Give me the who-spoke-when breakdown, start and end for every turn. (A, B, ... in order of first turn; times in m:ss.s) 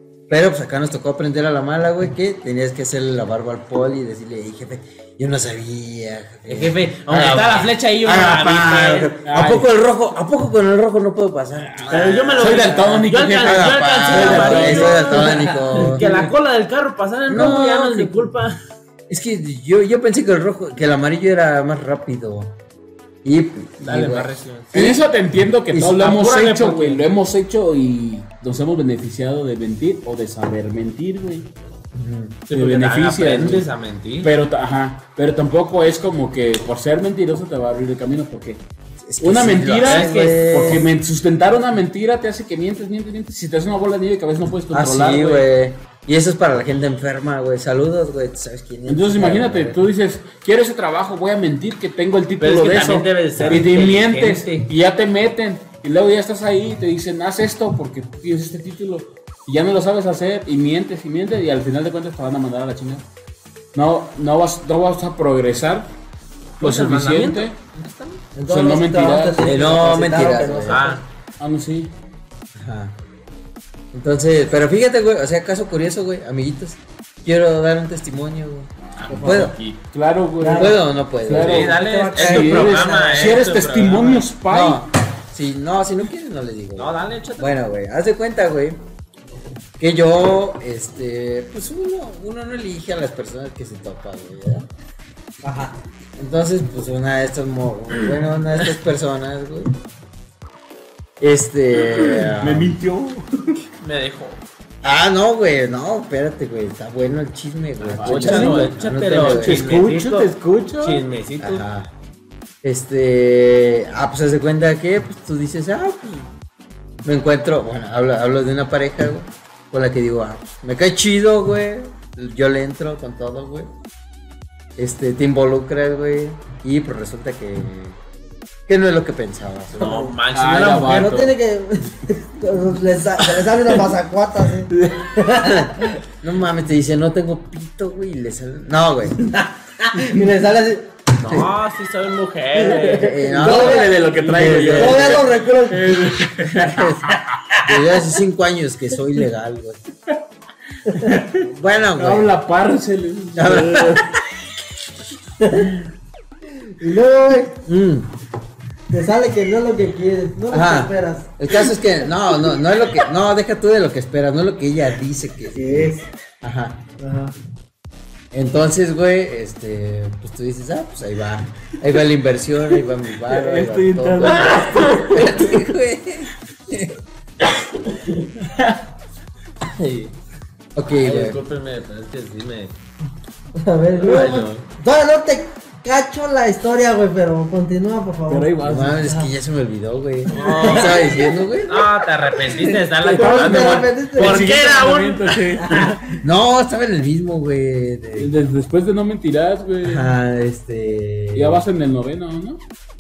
0:00.3-0:16.1 A
0:06.5-0:09.6 B
0:09.3-0:09.7 C
0:11.9-0:18.6 B
0:11.9-0:16.3 C
0:17.3-0:18.2 A
0:19.1-0:22.5 A
0:23.2-0:25.0 A
0:23.8-0:24.7 B
0:24.7-0:31.5 C
0:25.7-0:26.0 A
0:26.0-0:27.0 B
0:31.9-0:32.4 A
0:32.5-0:34.3 B
0:32.5-0:33.7 C
0:34.2-0:38.6 C
0:39.0-0:40.9 A
0:39.2-0:45.5 C
0:39.8-0:40.8 B
0:44.7-0:49.8 A
0:48.9-1:03.0 C
0:52.4-0:54.7 B
0:53.4-0:53.7 A
1:03.7-1:05.9 C
1:06.6-1:07.6 C
1:06.6-1:08.2 B
1:08.4-1:11.0 D
1:08.5-1:09.9 C
1:09.4-1:10.9 A
1:10.7-1:11.0 B
1:11.4-1:11.9 C
1:12.6-1:13.0 A
1:13.9-1:19.6 A
1:19.0-1:19.8 B
1:19.1-1:24.9 C
1:20.4-1:20.8 D
1:20.6-1:21.7 A
1:21.3-1:24.3 B
1:21.6-1:23.5 D
1:24.5-1:28.8 A
1:26.8-1:27.6 B
1:29.8-1:34.7 A
1:35.4-1:35.8 D
1:36.2-1:39.7 A
1:41.2-1:42.8 A
1:41.9-1:43.6 C
1:43.8-1:44.4 B
1:44.8-1:49.8 A
1:47.8-1:51.0 C
1:48.0-1:51.6 B
1:51.4-1:51.9 A
1:52.6-1:56.3 A
1:57.0-2:03.7 A
2:04.8-2:08.0 A
2:08.7-2:10.1 A
2:09.7-2:11.3 B
2:09.8-2:10.2 D
2:10.3-2:11.4 C
2:10.8-2:16.0 D
2:14.7-2:15.2 C
2:15.4-2:19.2 A
2:19.3-2:20.9 D
2:21.2-2:23.3 B
2:22.6-2:23.9 D
2:22.9-2:25.2 A
2:23.3-2:27.6 C
2:24.2-2:25.0 B
2:24.7-2:26.1 D
2:26.6-2:27.1 A
2:27.6-2:29.8 A
2:30.9-2:31.2 D
2:30.9-2:31.5 C
2:31.4-2:32.3 A
2:32.0-2:34.2 C
2:33.4-2:34.0 A
2:35.4-2:35.7 D
2:36.7-2:37.6 D
2:37.6-2:38.1 A
2:38.9-2:41.3 D
2:40.5-2:46.8 A
2:45.5-2:46.1 D
2:47.0-2:47.3 D
2:48.3-2:57.0 A
2:53.3-2:55.4 B
2:53.6-2:55.5 C
2:57.9-2:58.8 B
2:59.7-3:00.1 B
3:00.8-3:01.4 A
3:00.9-3:02.8 B
3:03.6-3:09.3 D
3:04.0-3:04.6 B
3:08.3-3:09.0 C
3:08.6-3:12.0 A
3:10.3-3:11.1 D
3:10.3-3:15.6 B
3:12.6-3:15.9 C
3:13.1-3:14.5 D
3:15.6-3:16.2 D
3:16.2-3:18.3 A
3:18.2-3:20.1 C
3:19.8-3:21.6 A
3:21.3-3:22.6 C